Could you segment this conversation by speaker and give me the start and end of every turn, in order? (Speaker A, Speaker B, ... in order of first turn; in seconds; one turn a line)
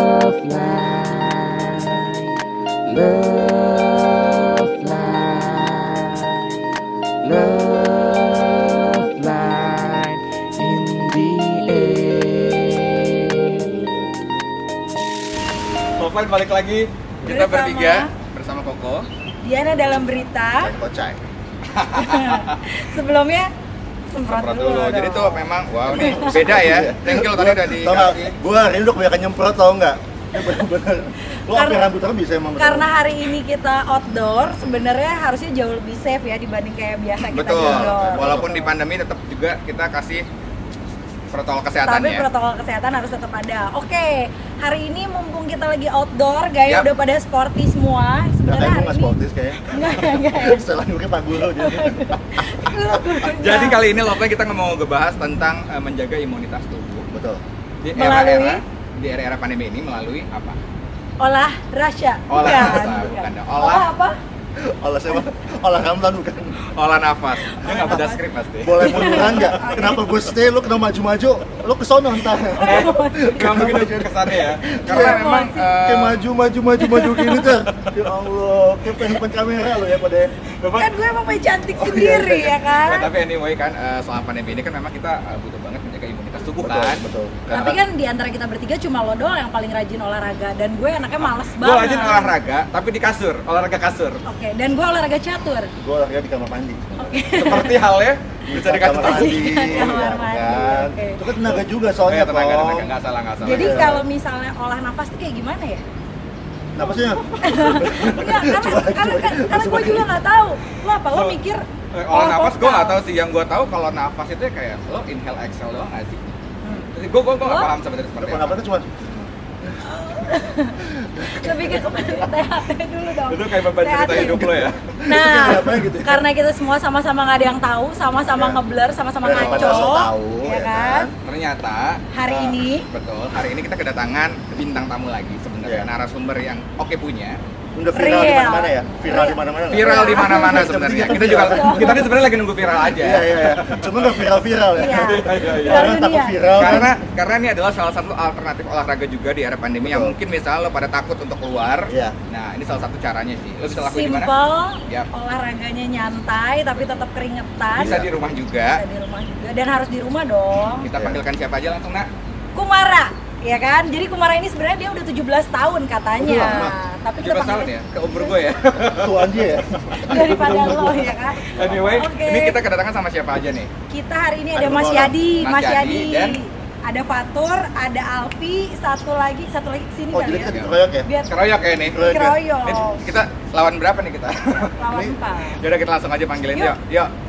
Speaker A: 0.2-2.3
Speaker A: 2.9-6.4
Speaker A: 7.2-13.0
Speaker B: 16.0-19.1
Speaker C: 17.2-18.1
Speaker C: 19.4-20.7
Speaker D: 20.6-21.2
Speaker B: 21.7-22.6
Speaker C: 21.9-23.5
Speaker C: 24.1-26.6
Speaker B: 24.3-28.3
Speaker D: 25.9-32.9
Speaker C: 31.5-31.9
Speaker C: 32.6-38.7
Speaker B: 37.2-40.2
Speaker D: 37.5-38.5
Speaker B: 41.3-42.3
Speaker C: 41.8-49.1
Speaker D: 48.4-53.0
Speaker C: 49.7-50.6
Speaker C: 51.5-53.8
Speaker B: 53.3-57.1
Speaker D: 57.1-57.4
Speaker B: 57.8-60.6
Speaker C: 57.9-58.6
Speaker C: 61.2-64.2
Speaker B: 62.3-63.9
Speaker D: 62.4-62.9
Speaker D: 64.6-66.5
Speaker B: 66.7-69.4
Speaker C: 67.5-68.2
Speaker D: 67.7-68.0
Speaker D: 68.6-80.3
Speaker C: 68.8-70.2
Speaker C: 72.3-73.8
Speaker B: 72.6-76.3
Speaker C: 74.8-75.8
Speaker C: 76.8-77.5
Speaker B: 80.6-80.9
Speaker C: 80.8-83.1
Speaker D: 81.7-82.5
Speaker B: 82.8-87.0
Speaker D: 86.6-87.8
Speaker C: 87.5-92.4
Speaker B: 91.5-94.2
Speaker C: 94.3-95.7
Speaker D: 95.8-97.7
Speaker C: 97.0-97.8
Speaker B: 97.3-100.1
Speaker D: 98.5-102.9
Speaker C: 98.9-101.2
Speaker B: 102.1-104.0
Speaker C: 103.4-105.8
Speaker D: 103.4-104.0
Speaker D: 106.8-110.1
Speaker C: 106.8-113.0
Speaker B: 111.1-111.4
Speaker B: 111.9-116.2
Speaker C: 116.6-116.9
Speaker B: 117.0-118.6
Speaker C: 117.4-117.7
Speaker D: 118.2-119.7
Speaker C: 119.8-124.6
Speaker D: 120.8-122.3
Speaker B: 123.3-124.8
Speaker D: 124.1-126.3
Speaker C: 125.1-131.1
Speaker D: 128.3-128.6
Speaker D: 129.2-131.1
Speaker B: 129.3-129.9
Speaker B: 131.2-137.3
Speaker C: 132.2-132.8
Speaker D: 137.8-142.2
Speaker C: 137.9-142.1
Speaker B: 139.7-143.9
Speaker D: 142.8-146.9
Speaker C: 144.8-146.9
Speaker B: 144.9-146.0
Speaker B: 146.6-154.3
Speaker D: 149.8-150.2
Speaker D: 151.9-152.2
Speaker C: 153.7-160.9
Speaker B: 157.8-158.8
Speaker D: 157.8-158.1
Speaker B: 160.8-162.1
Speaker D: 160.9-161.2
Speaker C: 162.6-168.4
Speaker D: 166.2-166.8
Speaker B: 167.2-169.2
Speaker D: 168.9-171.9
Speaker C: 170.0-172.6
Speaker B: 170.3-170.8
Speaker B: 171.5-173.7
Speaker C: 173.9-180.5
Speaker D: 174.6-175.2
Speaker B: 175.4-176.4
Speaker D: 180.1-181.1
Speaker C: 181.1-181.4
Speaker B: 181.3-182.1
Speaker D: 181.8-182.4
Speaker C: 182.1-183.0
Speaker B: 182.7-184.8
Speaker C: 184.8-185.6
Speaker D: 184.9-185.2
Speaker B: 185.6-187.1